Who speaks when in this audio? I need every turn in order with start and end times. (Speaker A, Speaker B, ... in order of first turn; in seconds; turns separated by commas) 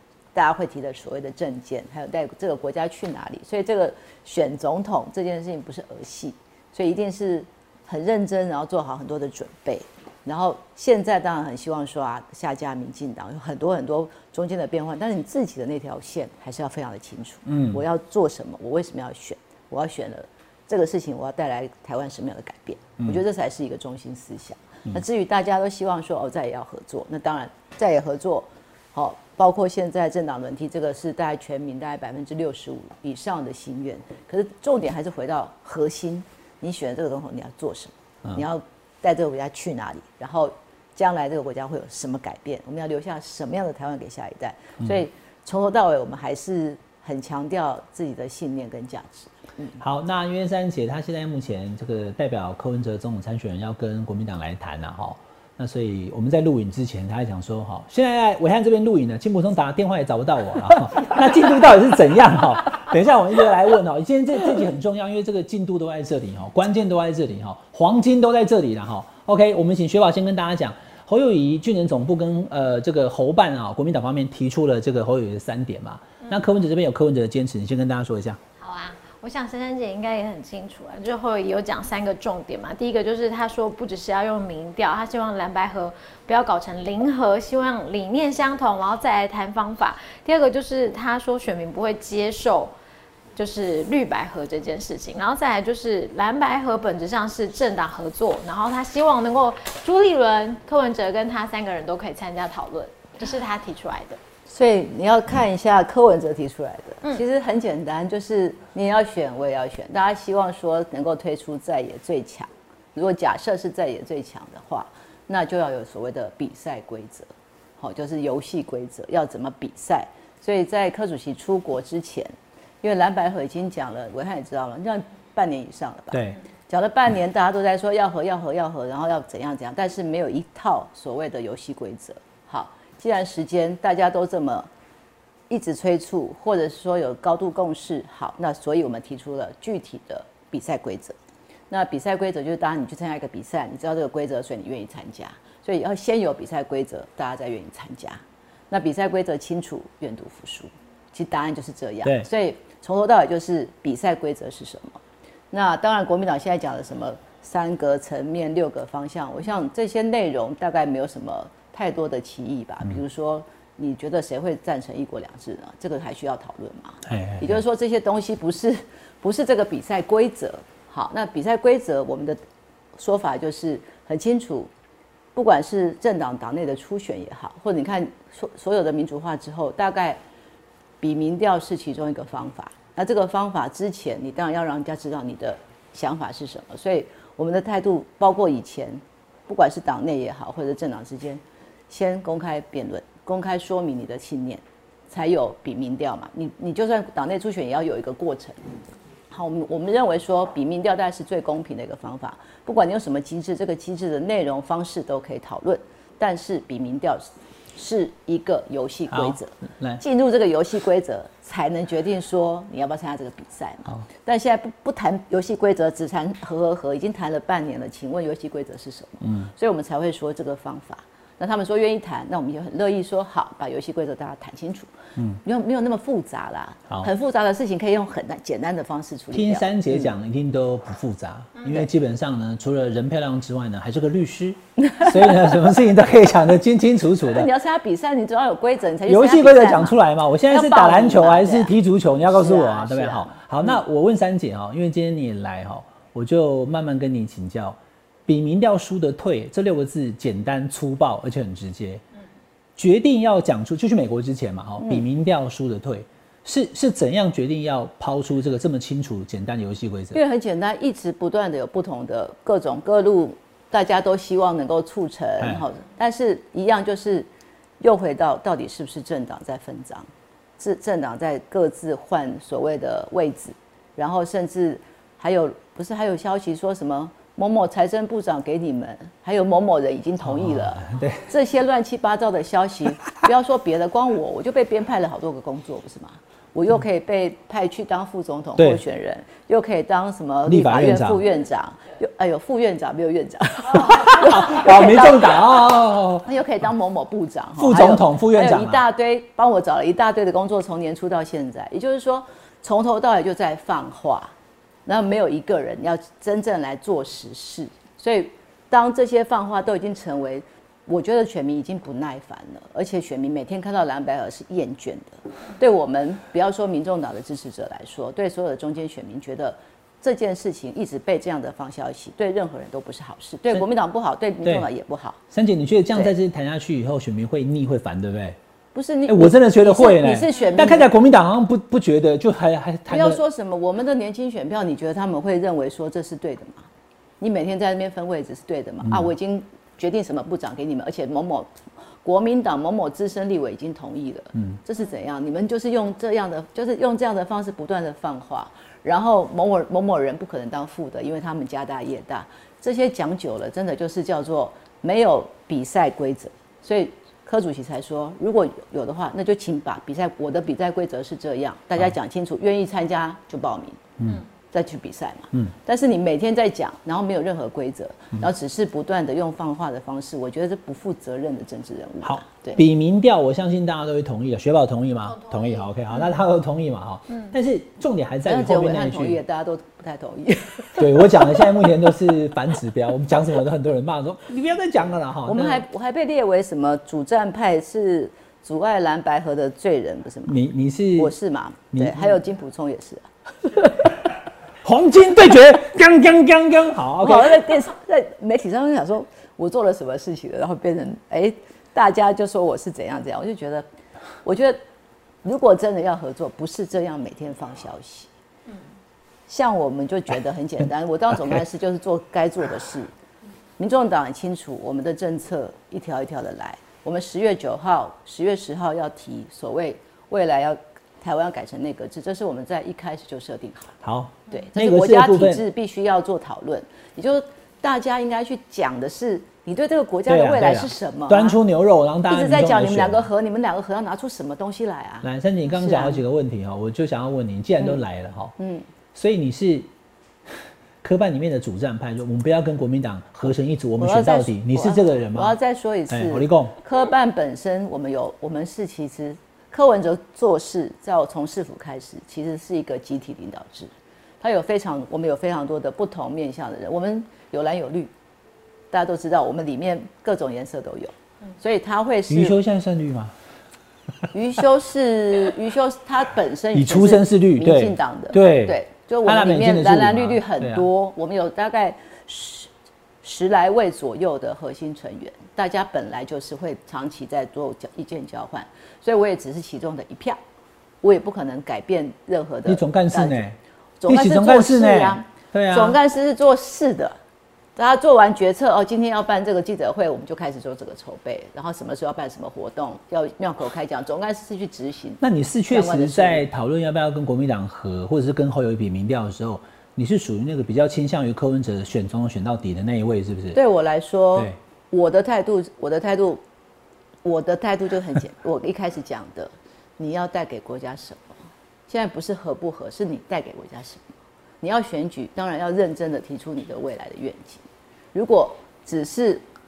Speaker A: 0.3-49.8, Speaker B: 17.5-17.8, Speaker B: 49.8-78.4, Speaker C: 78.6-92.7, Speaker C: 93.3-104.2, Speaker A: 104.5-134.7, Speaker B: 126.1-126.4, Speaker A: 135.5-141.2, Speaker A: 141.7-155.0, Speaker A: 155.5-172.4, Speaker B: 167.1-167.6, Speaker A: 173.0-174.7, Speaker A: 175.3-180.2, Speaker A: 181.0-198.6, Speaker A: 199.3-230.1, Speaker B: 209.1-210.0, Speaker B: 229.3-237.5, Speaker A: 234.8-235.5, Speaker A: 237.3-241.7, Speaker B: 239.1-252.0, Speaker A: 242.2-243.8, Speaker B: 252.8-260.2, Speaker A: 254.8-255.0, Speaker A: 260.1-267.3, Speaker A: 267.8-270.1, Speaker A: 270.6-295.6, Speaker B: 280.2-281.2, Speaker B: 290.4-291.2, Speaker B: 293.8-296.2, Speaker A: 296.2-304.3, Speaker B: 297.6-298.8, Speaker A: 304.9-325.2, Speaker B: 325.3-328.4, Speaker A: 328.7-330.9, Speaker B: 329.1-333.2, Speaker C: 330.4-330.6, Speaker A: 332.9-336.7, Speaker A: 337.2-363.8, Speaker A: 364.5-372.6, Speaker B: 372.0-379.2, Speaker C: 375.1-376.1, Speaker A: 378.2-381.9, Speaker B: 380.8-385.6, Speaker A: 385.2-390.4, Speaker B: 390.2-391.1, Speaker A: 390.9-393.9, Speaker B: 391.7-392.1, Speaker B: 394.6-397.5, Speaker A: 397.0-403.7, Speaker A: 404.2-404.6, Speaker A: 405.2-408.1, Speaker A: 409.3-412.9, Speaker A: 413.6-423.8, Speaker B: 423.8-425.4, Speaker A: 424.3-431.4, Speaker B: 430.1-433.1, Speaker A: 432.1-436.0, Speaker B: 435.0-438.3, Speaker A: 438.4-438.6, Speaker B: 438.9-439.7, Speaker B: 440.3-445.3, Speaker A: 443.8-457.9, Speaker B: 445.9-446.5, Speaker A: 458.7-462.4, Speaker B: 462.1-463.1, Speaker A: 464.1-472.5, Speaker B: 466.5-470.7, Speaker A: 473.0-480.2, Speaker A: 480.8-483.2, Speaker B: 482.4-485.8, Speaker A: 483.8-487.0, Speaker A: 487.6-496.2, Speaker B: 495.0-503.4, Speaker A: 503.3-506.2, Speaker A: 507.0-517.4, Speaker A: 517.9-519.2